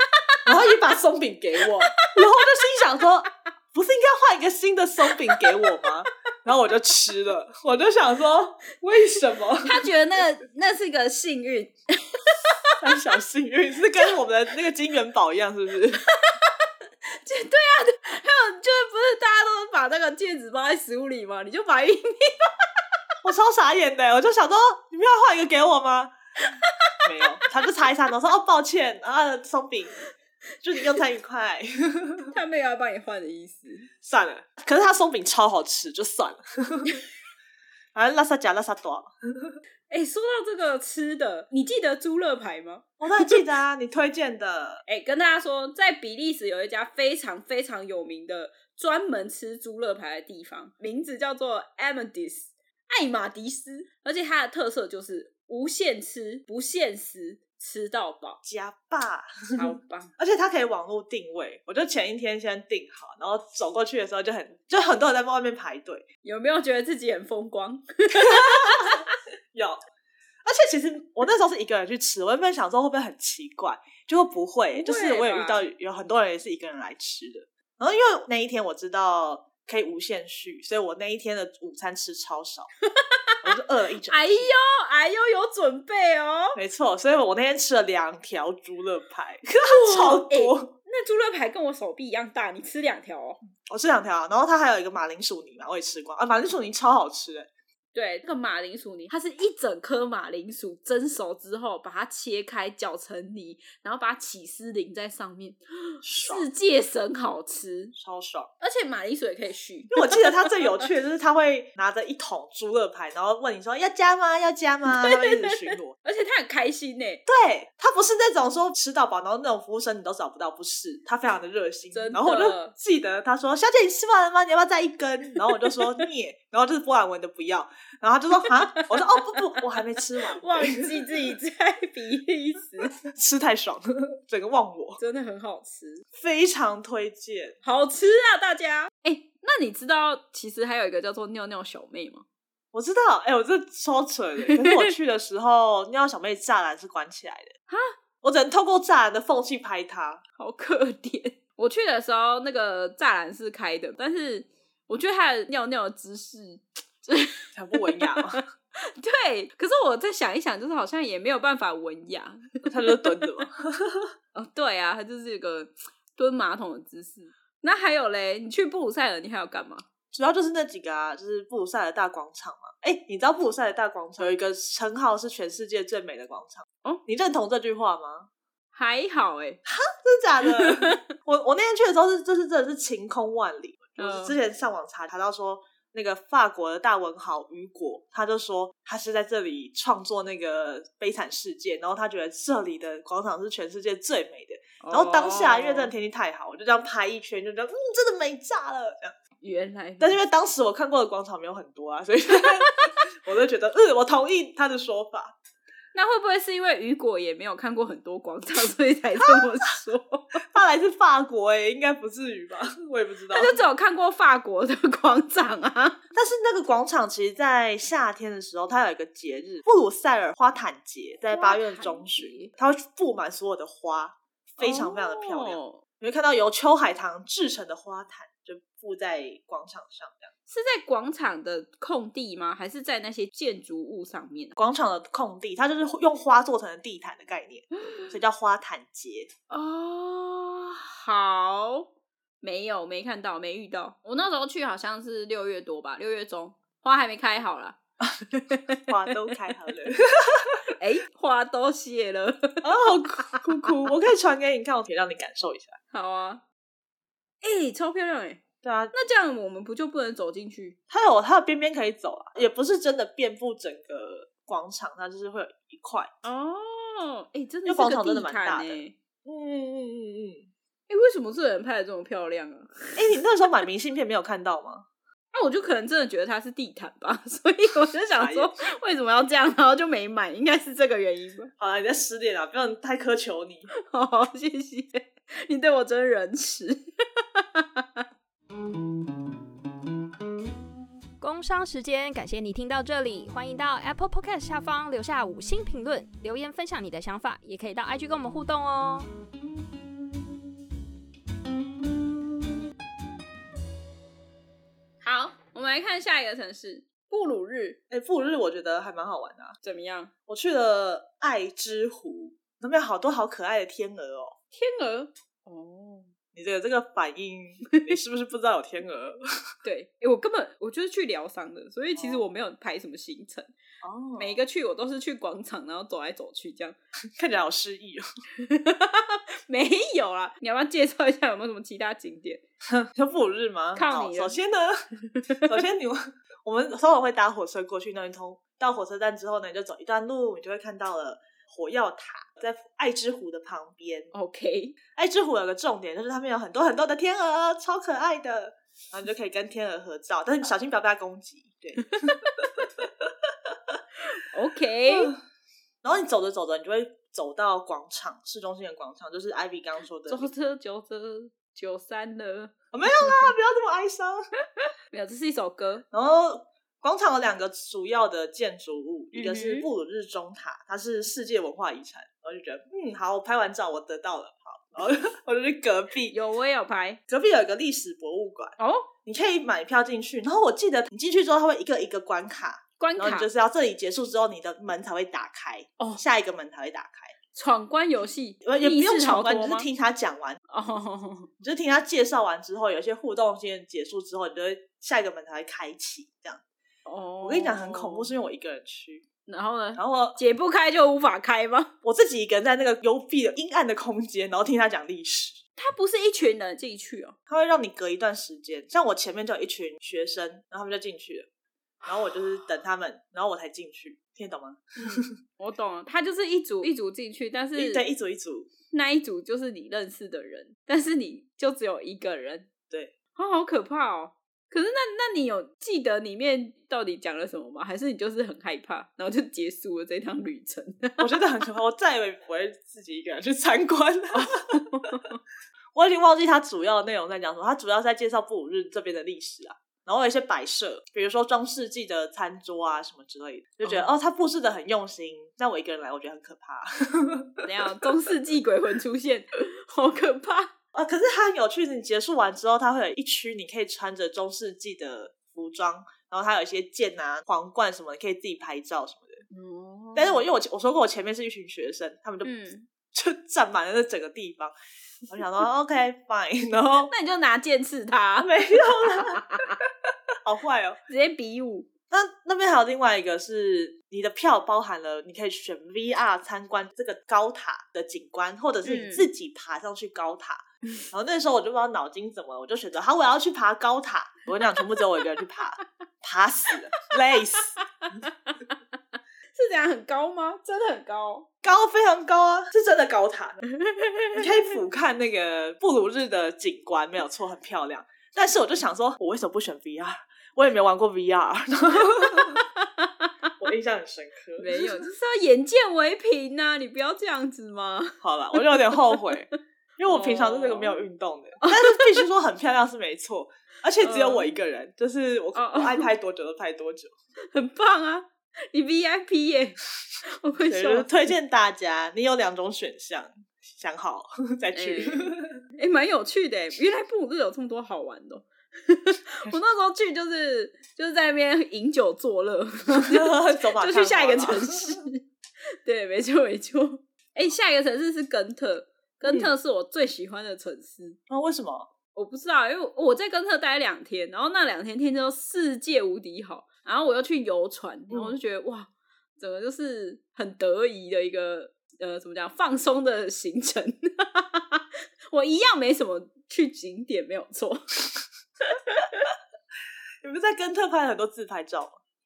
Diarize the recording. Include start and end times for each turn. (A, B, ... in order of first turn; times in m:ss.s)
0:00.2-0:00.4 A
0:00.4-0:09.9 B
0:01.6-0:02.1 A
0:05.3-0:05.8 A
0:09.6-0:12.8 A
0:12.8-0:16.0 B
0:16.1-0:22.5 A
0:23.2-0:26.1 B
0:26.4-0:27.4 A
0:27.0-0:30.0 B
0:30.6-0:32.3 B
0:32.3-0:33.9 A
0:34.0-0:37.0 B
0:37.9-0:39.6 B
0:39.9-0:43.4 A
0:43.0-0:44.8 B
0:44.9-0:58.4 A
0:58.4-1:06.1 B
0:59.6-1:00.1 A
1:06.2-1:09.1 A
1:08.1-1:09.0 B
1:09.5-1:09.8 B
1:10.4-1:22.7 B
1:14.7-1:15.6 A
1:22.9-1:23.4 A
1:23.4-1:24.6 B
1:24.1-1:26.6 A
1:26.5-1:30.7 B
1:29.6-1:33.4 A
1:33.6-1:37.5 B
1:37.9-1:47.9 A
1:46.0-1:46.5 B
1:48.0-1:48.5 B
1:48.6-1:50.5 A
1:49.9-1:56.0 B
1:54.9-1:57.2 A
1:57.2-2:11.1 B
2:01.9-2:02.7 A
2:05.5-2:05.8 A
2:08.7-2:09.7 A
2:10.3-2:13.0 A
2:12.8-2:15.0 B
2:15.0-2:16.0 A
2:16.1-2:17.6 B
2:17.6-2:22.2 A
2:22.7-2:27.5 B
2:24.5-2:24.8 A
2:27.7-2:27.9 A
2:28.2-2:30.2 B
2:30.4-2:43.1 A
2:37.5-2:38.4 B
2:42.6-2:44.1 B
2:44.3-2:49.8 A
2:50.1-2:58.3 B
2:58.7-2:59.6 A
2:59.6-3:19.1 B
3:00.4-3:01.0 A
3:04.0-3:04.4 A
3:14.8-3:15.9 A
3:19.4-3:20.2 A
3:20.0-3:25.3 B
3:25.9-3:30.4 A
3:30.5-3:33.5 B
3:33.3-3:36.0 A
3:36.1-3:50.3 B
3:41.3-3:42.5 A
3:44.6-3:45.8 A
3:50.5-3:54.5 A
3:54.6-3:59.3 B
3:57.7-3:58.1 A
3:59.5-4:01.9 A
4:02.4-4:07.8 A
4:08.3-4:09.1 A
4:08.9-4:10.6 B
4:10.7-4:12.6 A
4:12.6-4:15.8 B
4:15.9-4:16.4 A
4:17.4-4:20.8 A
4:18.6-4:18.9 B
4:20.9-4:26.1 B
4:26.2-4:28.9 A
4:27.6-4:30.5 B
4:30.9-4:33.0 A
4:33.0-4:34.8 B
4:35.3-4:41.5 A
4:38.1-4:38.5 B
4:41.6-4:43.7 B
4:43.7-4:48.0 A
4:51.2-4:59.1 C
5:05.0-5:07.8 A
5:07.9-5:09.6 B
5:09.6-5:10.1 A
5:10.3-5:14.3 B
5:14.5-5:16.1 A
5:16.3-5:19.2 B
5:19.6-5:23.5 A
5:22.0-5:22.2 B
5:23.8-5:24.4 B
5:24.2-5:26.8 A
5:27.2-5:28.0 B
5:28.4-5:32.4 A
5:32.7-5:34.8 B
5:33.7-5:34.4 A
5:35.1-5:35.5 A
5:35.4-5:44.1 B
5:44.1-5:44.7 A
5:44.9-5:53.8 B
5:51.9-5:52.4 A
5:54.1-5:55.1 A
5:54.9-5:55.1 B
5:55.8-6:00.3 B
6:00.1-6:03.1 A
6:02.7-6:04.2 B
6:04.9-6:05.8 A
6:05.9-6:16.1 B
6:09.1-6:09.7 A
6:16.1-6:17.0 A
6:17.1-6:18.5 B
6:18.6-6:18.9 A
6:19.0-6:27.1 B
6:22.8-6:23.3 A
6:27.3-6:29.7 A
6:28.4-6:30.4 B
6:30.5-6:31.3 A
6:31.4-6:36.4 B
6:36.8-6:38.1 A
6:37.2-6:39.0 B
6:39.3-6:41.7 A
6:39.7-6:40.2 B
6:41.8-6:45.4 B
6:45.6-6:47.2 A
6:47.3-6:51.3 B
6:51.8-6:55.1 B
6:54.8-6:57.8 A
6:57.6-6:58.5 B
6:58.7-7:02.5 A
7:03.2-7:11.1 A
7:11.0-7:14.4 B
7:14.1-7:15.2 A
7:15.7-7:27.4 B
7:23.6-7:23.9 A
7:27.4-7:30.5 A
7:30.7-7:39.2 B
7:39.3-7:40.2 A
7:39.9-7:42.3 B
7:42.2-7:42.7 A
7:42.9-7:44.5 B
7:45.1-7:46.9 B
7:46.9-7:49.6 A
7:48.2-7:49.2 B
7:50.2-7:50.8 B
7:50.9-7:51.7 A
7:51.9-8:07.6 B
7:58.6-7:59.1 A
8:07.8-8:08.3 A
8:09.3-8:11.3 A
8:11.4-8:13.4 B
8:13.6-8:14.2 A
8:14.1-8:22.4 B
8:22.2-8:23.1 A
8:23.4-8:24.8 B
8:24.4-8:29.0 A
8:28.0-8:36.9 B
8:29.9-8:30.8 A
8:31.4-8:32.0 A
8:33.8-8:34.3 A
8:35.3-8:35.9 A
8:37.3-8:40.9 A
8:40.5-8:45.4 B
8:44.5-8:55.0 A
8:52.8-8:54.8 B
8:55.6-9:01.0 A
8:59.0-8:59.3 B
9:01.1-9:01.7 B
9:01.9-9:17.8 A
9:18.5-9:19.1 A
9:20.0-9:21.7 B